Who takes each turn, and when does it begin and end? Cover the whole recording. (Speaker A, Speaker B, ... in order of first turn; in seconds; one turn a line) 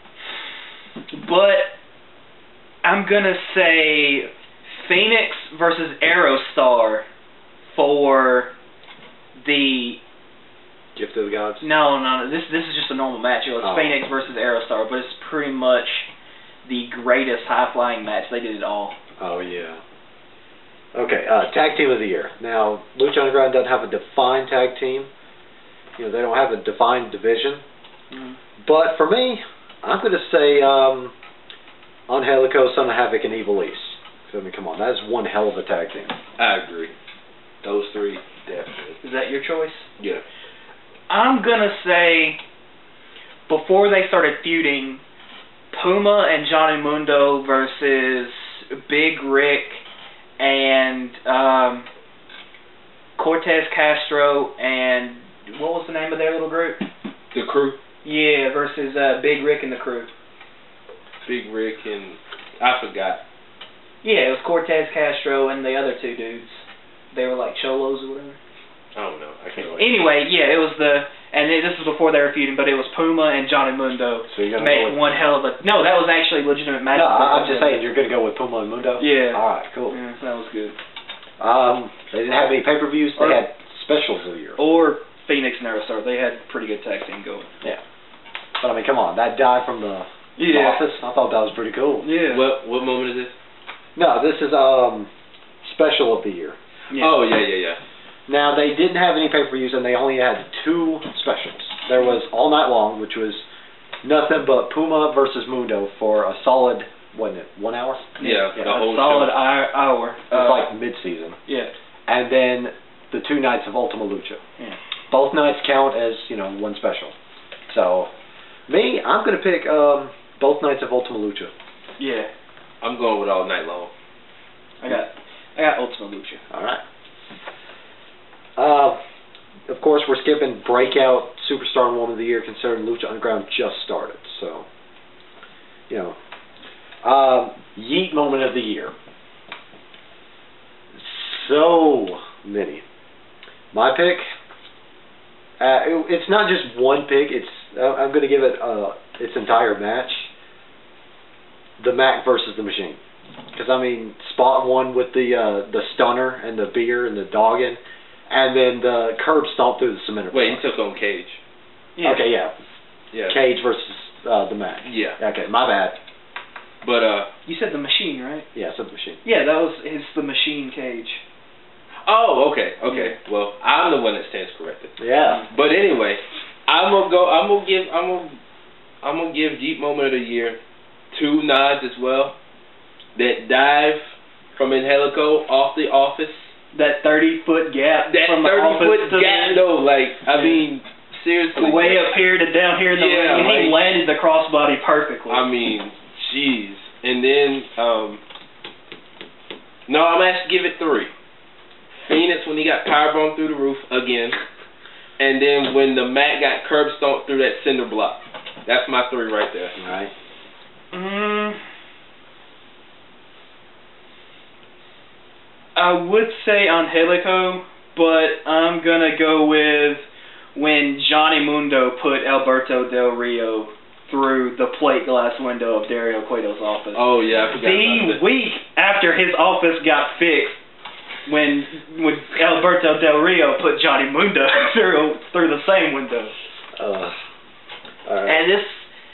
Speaker A: 1.1-1.7
Speaker A: 2.8-7.0
Speaker A: 7.7-8.5
Speaker A: 9.3-10.0
Speaker B: 10.9-11.7
Speaker A: 11.6-16.1
Speaker B: 13.6-14.0
Speaker A: 16.6-19.0
Speaker B: 19.2-19.8
Speaker B: 20.9-25.1
Speaker B: 26.0-27.6
Speaker A: 28.1-28.4
Speaker B: 28.6-31.1
Speaker B: 32.1-36.1
Speaker C: 36.4-36.9
Speaker C: 37.6-39.0
Speaker A: 39.0-39.9
Speaker C: 40.0-40.2
Speaker A: 41.1-42.4
Speaker A: 43.5-45.0
Speaker A: 45.7-49.8
Speaker A: 50.4-51.9
Speaker A: 53.2-56.9
Speaker C: 57.3-57.8
Speaker A: 58.0-60.1
Speaker C: 61.2-63.2
Speaker A: 64.0-68.4
Speaker C: 68.9-70.0
Speaker A: 69.8-77.8
Speaker B: 74.3-75.0
Speaker B: 76.9-80.0
Speaker A: 79.0-80.8
Speaker B: 81.4-84.6
Speaker A: 83.2-83.4
Speaker A: 84.6-87.5
Speaker B: 88.6-92.1
Speaker A: 90.4-90.8
Speaker A: 92.0-92.5
Speaker C: 92.3-93.3
Speaker B: 94.0-95.1
Speaker B: 95.6-96.6
Speaker A: 96.9-97.2
Speaker C: 96.9-97.8
Speaker B: 98.3-103.4
Speaker B: 104.0-108.7
Speaker A: 108.2-110.7
Speaker C: 108.2-109.4
Speaker B: 110.3-111.4
Speaker B: 112.1-114.4
Speaker B: 115.1-117.1
Speaker B: 117.7-118.1
Speaker B: 118.7-121.5
Speaker A: 122.0-122.3
Speaker C: 122.8-123.9
Speaker A: 124.8-126.4
Speaker B: 126.5-126.8
Speaker B: 128.6-129.0
Speaker B: 129.7-134.7
Speaker B: 135.9-136.2
Speaker B: 137.0-138.9
Speaker B: 141.0-142.8
Speaker B: 143.7-144.2
Speaker B: 145.6-150.3
Speaker B: 151.8-153.0
Speaker B: 153.5-160.7
Speaker C: 160.3-161.4
Speaker A: 161.9-162.3
Speaker B: 162.0-162.5
Speaker C: 163.1-163.4
Speaker B: 163.3-166.0
Speaker C: 164.8-165.2
Speaker C: 166.8-167.3
Speaker A: 167.4-168.5
Speaker B: 168.5-169.2
Speaker A: 169.2-171.2
Speaker C: 172.0-175.0
Speaker A: 172.9-173.2
Speaker B: 175.0-175.4
Speaker C: 175.5-178.4
Speaker C: 179.0-180.6
Speaker C: 181.1-182.3
Speaker C: 183.1-186.5
Speaker A: 186.7-189.6
Speaker C: 188.1-192.2
Speaker A: 190.3-190.6
Speaker A: 191.6-195.4
Speaker C: 192.9-193.8
Speaker C: 195.3-198.2
Speaker C: 199.9-201.1
Speaker C: 202.0-204.4
Speaker C: 205.2-209.8
Speaker B: 209.8-210.1
Speaker A: 210.9-211.6
Speaker A: 215.7-230.6
Speaker C: 226.9-228.2
Speaker A: 231.3-236.3
Speaker B: 236.8-237.2
Speaker B: 238.1-238.4
Speaker A: 238.2-238.8